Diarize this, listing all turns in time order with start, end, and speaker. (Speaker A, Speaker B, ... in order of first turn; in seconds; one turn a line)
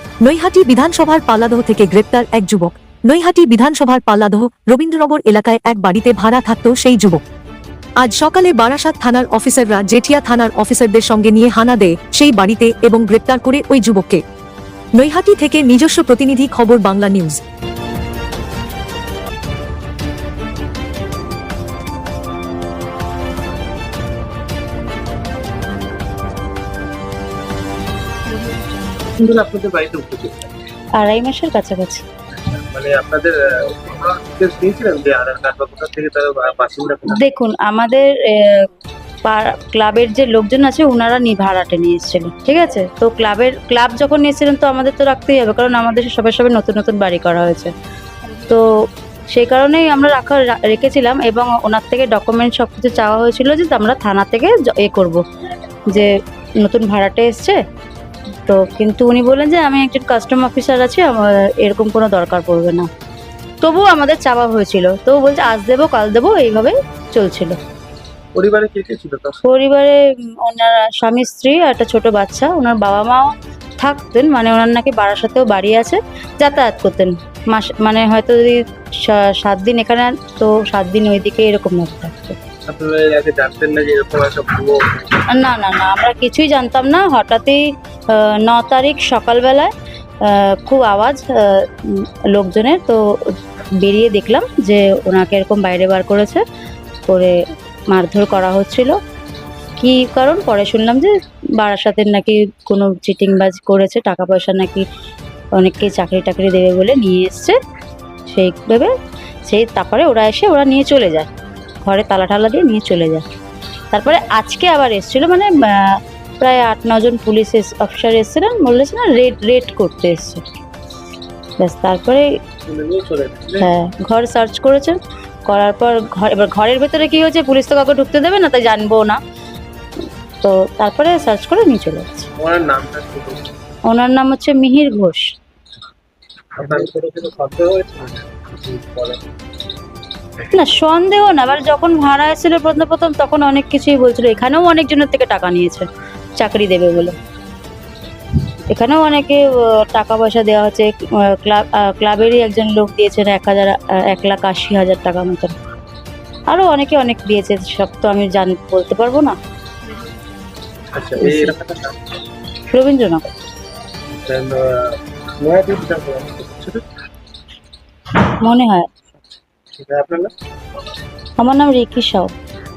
Speaker A: 0.2-7.2
Speaker A: 8.0-14.2
Speaker A: 14.9-17.4
Speaker B: 29.2-30.5
Speaker C: 31.0-32.0
Speaker B: 32.4-37.2
Speaker C: 37.1-38.7
Speaker C: 39.2-47.7
Speaker C: 48.4-55.2
Speaker C: 55.9-57.6
Speaker C: 58.5-62.9
Speaker C: 63.6-67.6
Speaker B: 68.3-69.4
Speaker C: 69.5-82.4
Speaker B: 82.7-85.1
Speaker C: 85.3-89.7
Speaker C: 90.2-96.4
Speaker C: 97.1-97.4
Speaker C: 97.9-99.0
Speaker C: 99.8-104.9
Speaker C: 105.5-107.6
Speaker C: 108.3-108.9
Speaker C: 109.5-111.3
Speaker C: 111.8-113.2
Speaker C: 113.9-120.4
Speaker C: 121.6-122.3
Speaker B: 122.7-123.7
Speaker C: 123.6-129.2
Speaker C: 130.4-132.3
Speaker B: 132.4-133.5
Speaker C: 133.9-135.3
Speaker B: 136.6-139.2
Speaker C: 140.5-147.2
Speaker C: 148.7-155.6
Speaker C: 156.5-159.4
Speaker B: 160.9-162.0
Speaker C: 161.2-161.6
Speaker C: 162.7-163.3
Speaker B: 164.1-166.8
Speaker C: 168.4-168.9
Speaker B: 169.7-170.3
Speaker C: 171.4-172.3